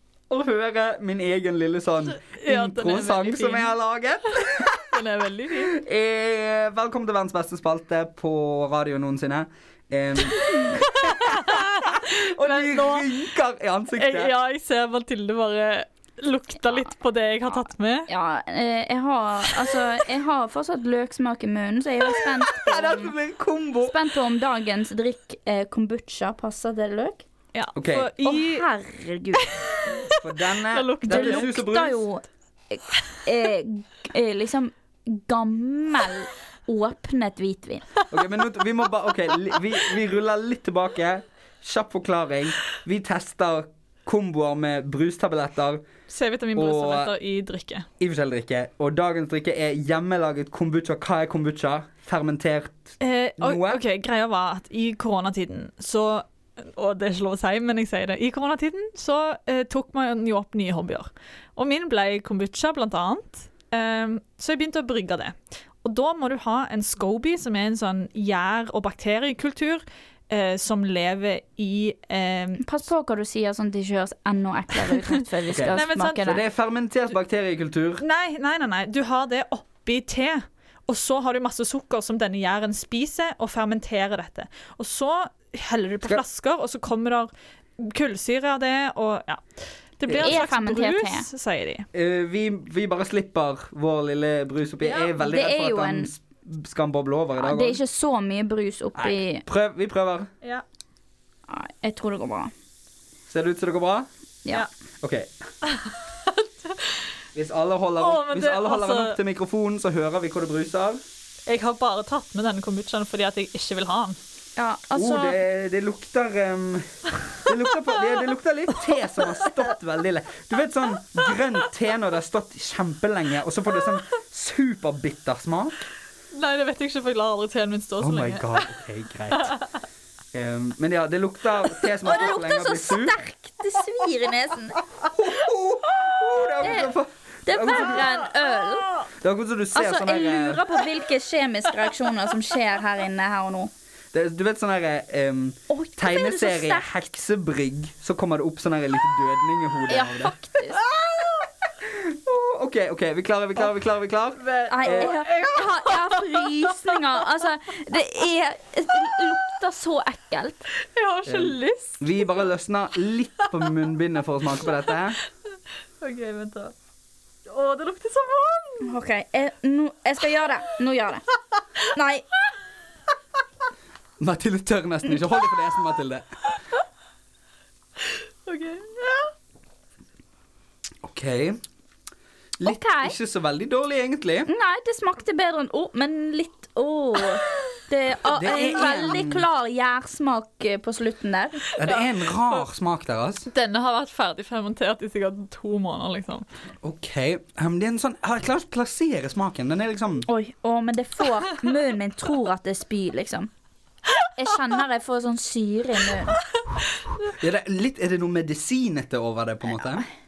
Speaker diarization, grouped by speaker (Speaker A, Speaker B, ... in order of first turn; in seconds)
Speaker A: 0.3-5.0, 5.5-14.3, 22.5-24.0, 27.8-28.1, 30.2-32.0, 38.1-45.9, 46.5-47.1, 48.0-53.8, 75.5-78.0, 90.1-90.4, 91.9-97.8, 99.0-100.3, 103.3-104.1, 105.0-105.3, 107.3-111.0, 115.0-125.9, 128.0-129.6, 130.3-133.2, 135.1-138.1, 139.2-140.6, 144.1-150.4, 151.8-155.2, 161.2-165.2, 174.2-176.3, 181.0-181.6, 182.6-184.5, 188.3-189.5, 191.8-193.5, 196.8-200.3, 207.3-210.1
Speaker B: 2.2-3.7, 4.5-5.8, 10.7-13.2, 14.0-18.1, 27.5-28.7, 29.4-31.5, 46.1-47.9, 53.0-72.8, 75.7-76.2, 78.0-89.4, 90.0-91.9, 94.8-95.1, 105.7-107.1, 108.0-109.2, 111.5-114.2, 126.3-128.7, 129.3-129.6, 137.9-138.8, 150.9-151.3, 154.4-157.0, 160.8-162.3, 166.0-166.7, 167.5-168.9, 178.0-179.3, 193.5-196.5
Speaker C: 18.1-23.1, 23.8-27.3, 28.2-29.5, 31.0-37.9, 72.6-76.4, 90.1-91.3, 95.2-96.1, 97.4-99.4, 101.5-102.5, 114.6-115.4, 132.0-134.8, 136.6-136.9, 137.5-139.0, 139.7-143.7, 145.7-146.9, 149.9-150.8, 154.7-160.7, 168.8-171.2, 171.9-172.3, 182.6-183.2, 184.5-191.7, 200.3-203.5, 204.3-206.4